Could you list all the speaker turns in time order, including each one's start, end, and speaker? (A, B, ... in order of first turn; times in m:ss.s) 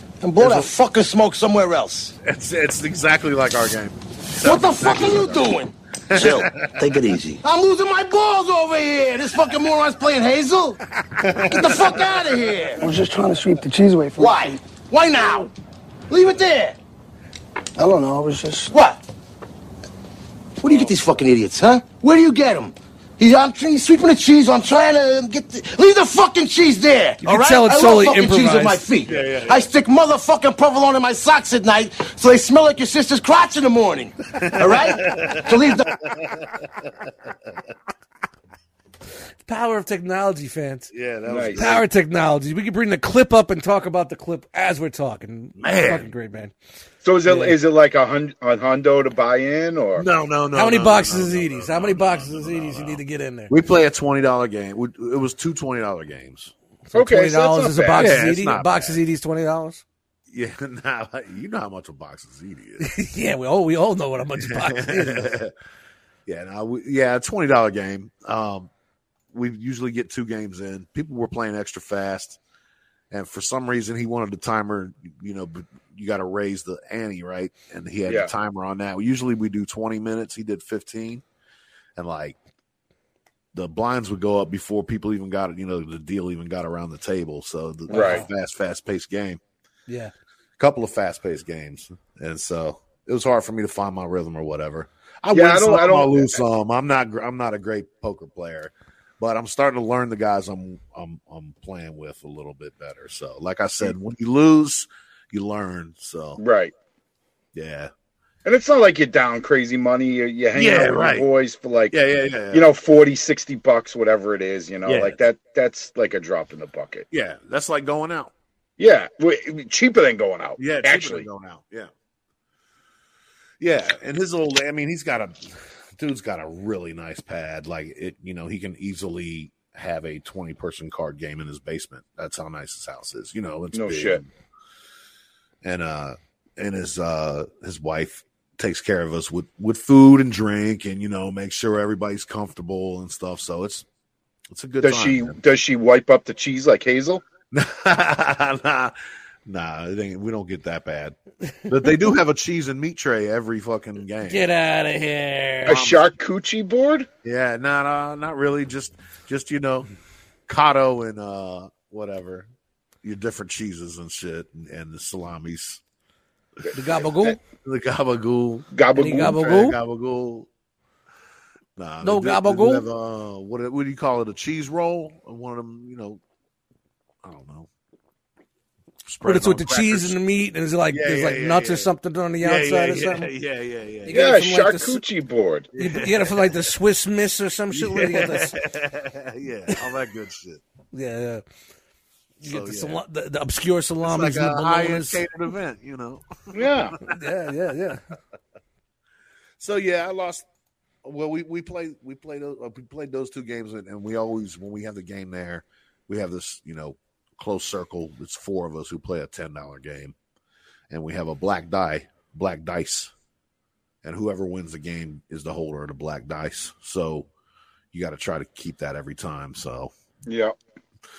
0:00.2-0:02.1 A
0:00.4-0:00.7 B
0:02.2-0:05.5 B
0:04.4-0:10.8 A
0:06.1-0:07.0 B
0:11.2-0:12.6 B
0:11.3-0:12.9 A
0:12.8-0:14.6 C
0:14.2-0:15.5 A
0:16.1-0:16.8 A
0:17.8-0:18.8 C
0:18.7-0:19.0 A
0:20.6-0:35.9 A
0:20.6-0:21.0 B
0:27.2-0:28.9 D
0:29.0-0:29.7 B
0:34.3-0:37.6 B
0:39.4-0:40.9 D
0:40.9-0:41.9 B
0:41.3-0:41.7 E
0:41.6-0:46.5 D
0:45.6-0:46.1 B
0:47.0-0:50.1 E
0:47.2-0:47.6 D
0:49.9-0:56.5 B
0:50.5-0:53.5 D
0:56.9-0:59.8 D
0:56.9-0:58.2 E
0:57.9-0:59.0 B
1:00.3-1:02.9 B
1:02.8-1:05.4 D
1:04.4-1:05.5 B
1:06.2-1:08.7 B
1:09.3-1:12.4 B
1:13.1-1:21.2 B
1:22.0-1:22.4 B
1:23.5-1:29.4 B
1:27.9-1:28.3 D
1:27.9-1:28.2 E
1:29.9-1:30.1 D
1:30.6-1:46.4 B
1:35.3-1:36.4 E
1:46.4-1:46.7 E
1:47.5-1:47.9 B
1:48.4-1:52.0 E
1:50.5-1:51.3 B
1:51.9-1:52.7 B
1:52.5-1:57.0 E
1:54.8-1:55.2 B
1:57.1-1:58.3 B
1:58.8-2:01.3 E
2:00.6-2:01.9 B
2:03.6-2:14.3 B
2:13.7-2:14.2 E
2:15.6-2:23.9 B
2:24.5-2:25.4 B
2:24.8-2:27.2 E
2:27.5-2:31.2 B
2:31.7-2:34.5 B
2:34.2-2:35.9 D
2:35.6-2:36.1 B
2:35.6-2:37.1 E
2:37.2-2:39.9 B
2:40.5-2:42.5 B
2:43.0-2:45.8 B
2:46.7-2:47.4 D
2:47.6-2:50.5 B
2:48.7-2:49.6 E
2:48.9-2:49.8 D
2:51.8-2:56.2 B
2:52.0-2:52.9 D
2:57.2-2:57.7 B
2:59.0-3:00.2 B
2:59.2-3:03.3 D
3:00.9-3:04.2 B
3:04.0-3:05.0 D
3:04.1-3:05.7 E
3:05.7-3:06.7 B
3:05.8-3:08.6 D
3:07.7-3:10.6 B
3:10.9-3:11.4 D
3:12.4-3:15.2 D
3:12.4-3:13.0 B
3:14.0-3:17.2 B
3:16.5-3:16.9 E
3:17.0-3:18.0 D
3:19.6-3:20.4 B
3:21.0-3:30.1 B
3:30.9-3:33.1 B
3:34.0-3:37.3 B
3:37.9-3:39.9 B
3:40.2-3:40.6 E